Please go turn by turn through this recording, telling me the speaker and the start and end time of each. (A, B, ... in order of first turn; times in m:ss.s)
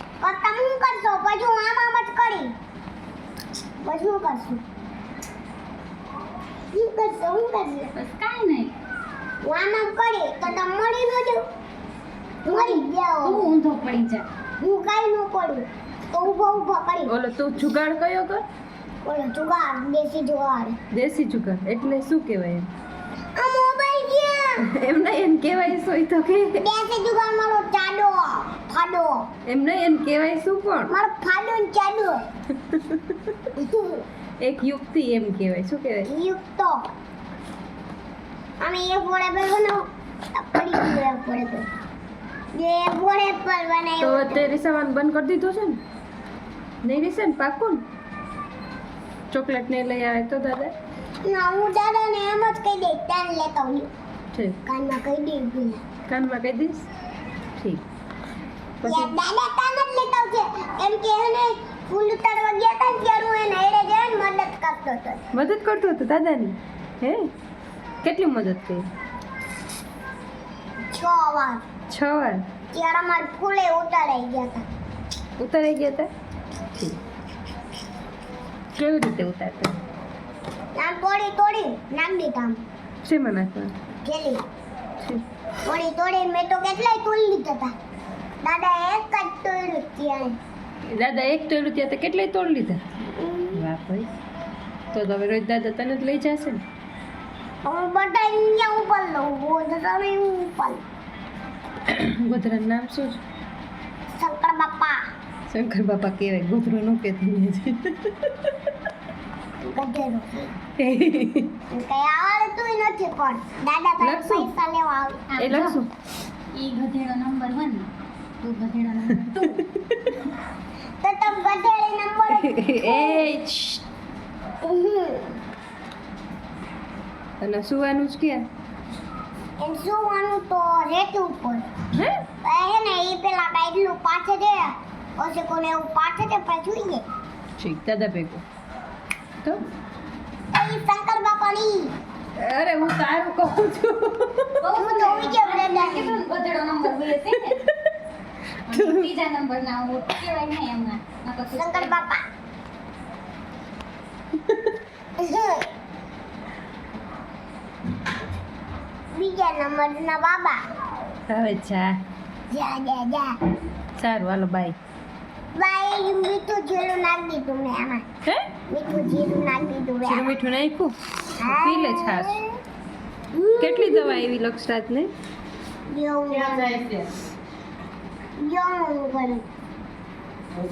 0:00.2-0:02.5 A
0:03.8-0:04.6 A
0:06.7-0:07.9 A
0:07.9-0:08.7 B
0:09.4-0:11.4 A
0:12.4-0:13.5 A
0:13.2-0:14.3 B
0:14.6-0:17.1 A
0:17.1-0:18.4 C
0:19.0-0:20.8 A
0:20.9-0:22.7 C
0:23.4-0:24.7 A
0:24.6-0:26.7 C
0:26.6-0:29.3 A
0:29.5-0:31.0 C
0:30.9-0:32.2 A
0:32.6-0:33.2 C
0:33.5-0:34.0 A
0:34.4-0:36.1 C
0:36.0-0:36.9 A
0:38.6-0:41.7 A
0:42.5-0:44.5 A
0:44.0-0:45.8 C
0:46.8-0:47.8 C
0:49.3-0:50.7 C
0:51.2-0:53.9 A
0:54.6-0:55.8 A
0:56.1-0:56.9 C
0:57.6-0:57.8 C
0:58.8-0:59.1 C
0:58.8-1:05.2 A
1:05.3-1:07.3 C
1:08.0-1:08.8 C
1:10.9-1:11.6 A
1:11.9-1:12.4 C
1:12.7-1:14.6 A
1:15.4-1:16.1 C
1:18.8-1:19.8 C
1:20.7-1:22.6 A
1:23.0-1:23.7 C
1:24.0-1:24.4 A
1:25.6-1:27.7 A
1:28.4-1:30.4 A
1:30.9-1:32.8 C
1:33.1-1:33.6 A
1:33.5-1:34.1 C
1:34.9-1:36.6 C
1:37.6-1:40.8 A
1:41.8-1:43.2 C
1:44.2-1:45.0 A
1:45.5-1:48.5 C
1:49.6-1:50.5 A
1:50.8-1:51.6 C
1:51.7-1:55.3 A
1:54.0-1:54.5 C
1:55.3-1:55.8 B
1:55.4-1:55.9 C
1:56.5-1:57.9 B
1:58.4-1:59.7 B
1:59.2-2:00.1 C
2:01.0-2:03.3 A
2:02.3-2:03.8 C
2:04.6-2:05.4 A
2:07.4-2:08.4 C
2:09.6-2:11.6 A
2:11.9-2:12.2 C
2:12.4-2:17.0 A
2:17.6-2:18.4 C
2:20.5-2:21.9 A
2:22.4-2:24.6 C
2:24.6-2:27.7 B
2:24.7-2:26.2 A
2:26.9-2:27.9 C
2:28.7-2:31.9 B
2:28.7-2:29.1 C
2:31.5-2:32.2 A
2:35.2-2:35.7 A
2:39.1-2:40.6 A
2:41.3-2:42.0 C
2:42.5-2:43.4 A
2:44.0-2:44.8 C
2:45.5-2:48.0 A
2:48.2-2:48.5 C
2:48.7-2:50.3 A
2:50.0-2:52.4 C
2:51.4-2:52.5 A
2:53.3-2:54.3 A
2:53.6-2:55.1 C
2:55.9-2:56.8 A
2:58.4-2:59.4 A